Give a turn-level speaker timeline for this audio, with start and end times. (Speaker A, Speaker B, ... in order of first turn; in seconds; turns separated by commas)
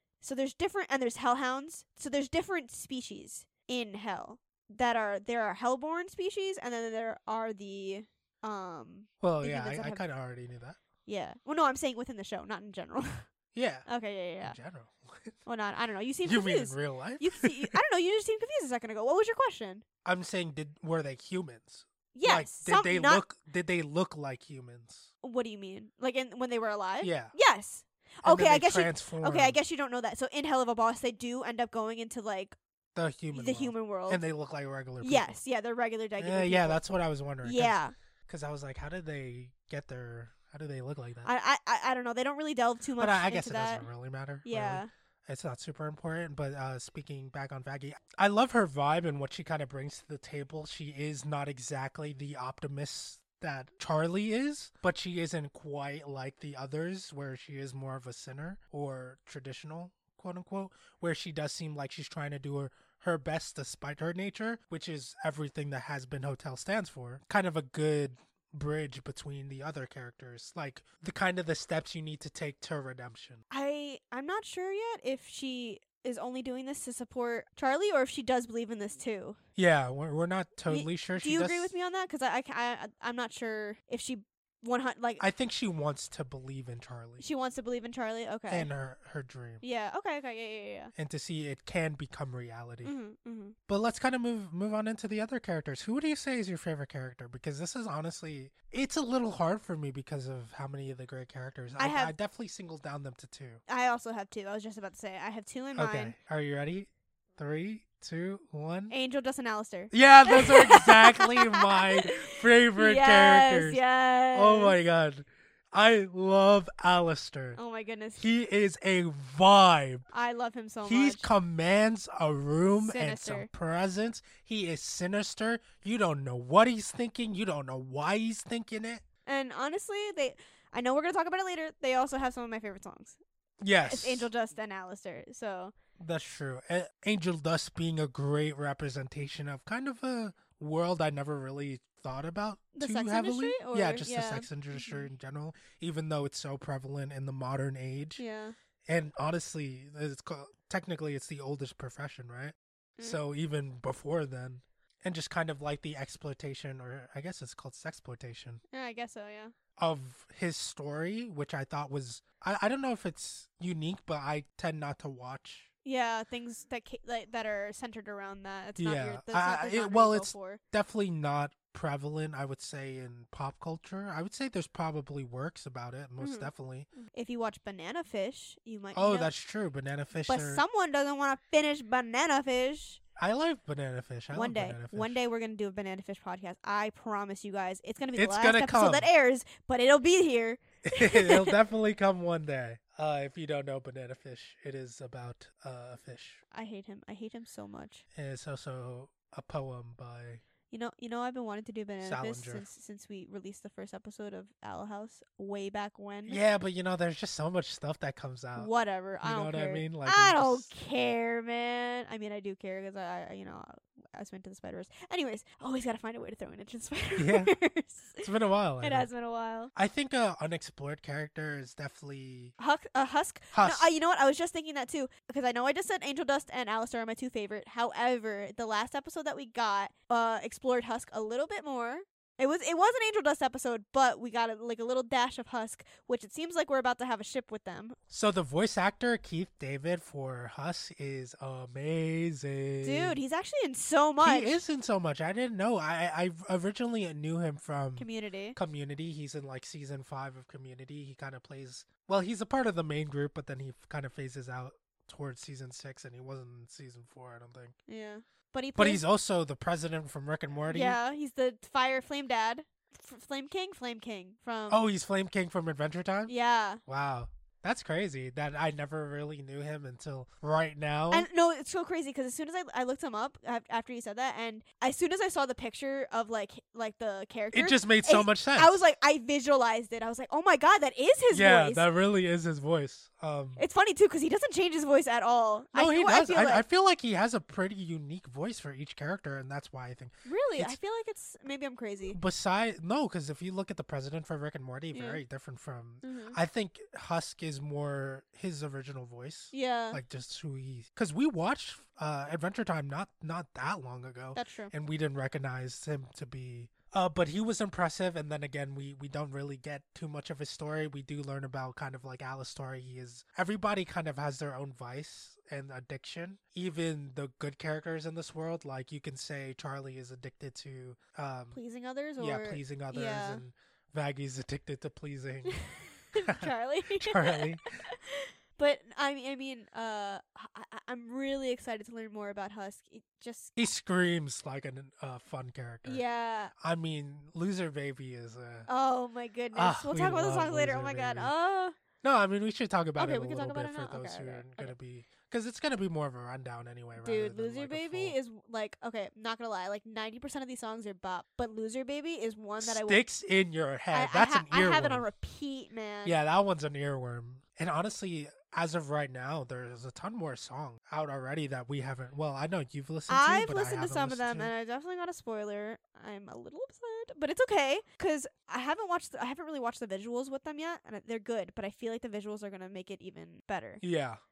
Speaker A: 0.2-10.0, Speaker B: 9.2-10.8, Speaker A: 11.1-13.2, Speaker B: 13.5-13.9, Speaker A: 13.9-14.6, Speaker B: 14.4-15.4, Speaker A: 15.4-19.8, Speaker B: 16.2-17.8, Speaker B: 20.0-25.1, Speaker A: 22.1-23.2, Speaker A: 25.2-32.6, Speaker B: 27.0-27.3, Speaker B: 28.2-29.6, Speaker B: 32.9-35.3, Speaker A: 33.3-34.2, Speaker A: 35.0-36.8, Speaker B: 36.2-41.3, Speaker A: 37.4-37.9, Speaker A: 41.2-43.9, Speaker B: 43.0-73.4, Speaker A: 44.4-44.9, Speaker A: 73.5-79.4, Speaker B: 79.5-81.8, Speaker A: 80.7-85.2, Speaker B: 85.2-87.2, Speaker A: 87.2-88.7, Speaker B: 88.5-89.6, Speaker A: 89.6-90.9, Speaker B: 91.0-92.9, Speaker A: 92.8-93.5, Speaker B: 93.7-103.6, Speaker A: 101.8-102.1, Speaker A: 103.7-106.1, Speaker B: 105.8-108.9, Speaker A: 108.9-112.1, Speaker B: 109.9-113.8, Speaker A: 112.8-114.8, Speaker B: 114.3-117.6, Speaker A: 117.5-118.2, Speaker B: 118.2-120.1, Speaker A: 120.1-121.3, Speaker B: 120.8-129.0, Speaker A: 122.8-123.5, Speaker A: 129.2-133.2, Speaker B: 133.6-134.3, Speaker A: 133.8-135.7, Speaker B: 136.0-148.2, Speaker A: 142.8-145.1, Speaker A: 148.2-148.5, Speaker B: 148.9-158.6, Speaker A: 158.7-159.5, Speaker B: 159.8-165.7, Speaker A: 165.8-170.6, Speaker B: 168.8-176.9, Speaker A: 176.2-176.5, Speaker A: 177.0-179.3, Speaker B: 178.9-180.6, Speaker A: 180.3-183.0, Speaker B: 183.2-185.2, Speaker A: 184.3-191.5, Speaker B: 188.1-189.1, Speaker B: 190.8-196.4, Speaker A: 196.5-198.0, Speaker B: 198.1-200.4, Speaker A: 200.7-206.4, Speaker B: 202.0-202.7, Speaker B: 206.3-208.7, Speaker A: 208.6-218.3, Speaker B: 209.2-210.7, Speaker B: 217.2-217.5, Speaker B: 218.2-219.1, Speaker A: 218.8-219.7, Speaker B: 219.8-222.5, Speaker A: 222.6-238.0, Speaker B: 223.5-223.9, Speaker B: 238.1-243.2, Speaker A: 242.8-244.6, Speaker B: 244.2-257.8, Speaker A: 248.0-248.6, Speaker A: 257.9-259.0, Speaker B: 258.8-261.0, Speaker A: 260.7-264.8, Speaker B: 264.7-266.3, Speaker A: 266.3-266.8, Speaker B: 266.9-271.3, Speaker A: 271.1-281.9, Speaker B: 277.5-278.9, Speaker B: 281.3-283.6, Speaker A: 283.6-286.6, Speaker B: 285.7-290.8, Speaker A: 290.2-292.2, Speaker B: 292.1-321.6, Speaker A: 294.9-295.2, Speaker A: 296.0-296.4, Speaker A: 299.5-300.0, Speaker A: 304.4-304.7, Speaker A: 321.5-323.4, Speaker B: 322.2-325.6, Speaker A: 325.5-333.6, Speaker B: 326.1-327.9, Speaker B: 333.6-336.0, Speaker A: 335.9-336.5, Speaker B: 336.6-338.7, Speaker A: 338.7-341.8, Speaker B: 339.5-341.3, Speaker B: 342.0-348.2, Speaker A: 343.0-344.7, Speaker A: 347.0-353.0, Speaker B: 352.6-355.1, Speaker A: 353.9-356.1, Speaker B: 356.0-364.5, Speaker A: 363.1-373.8, Speaker B: 373.8-374.2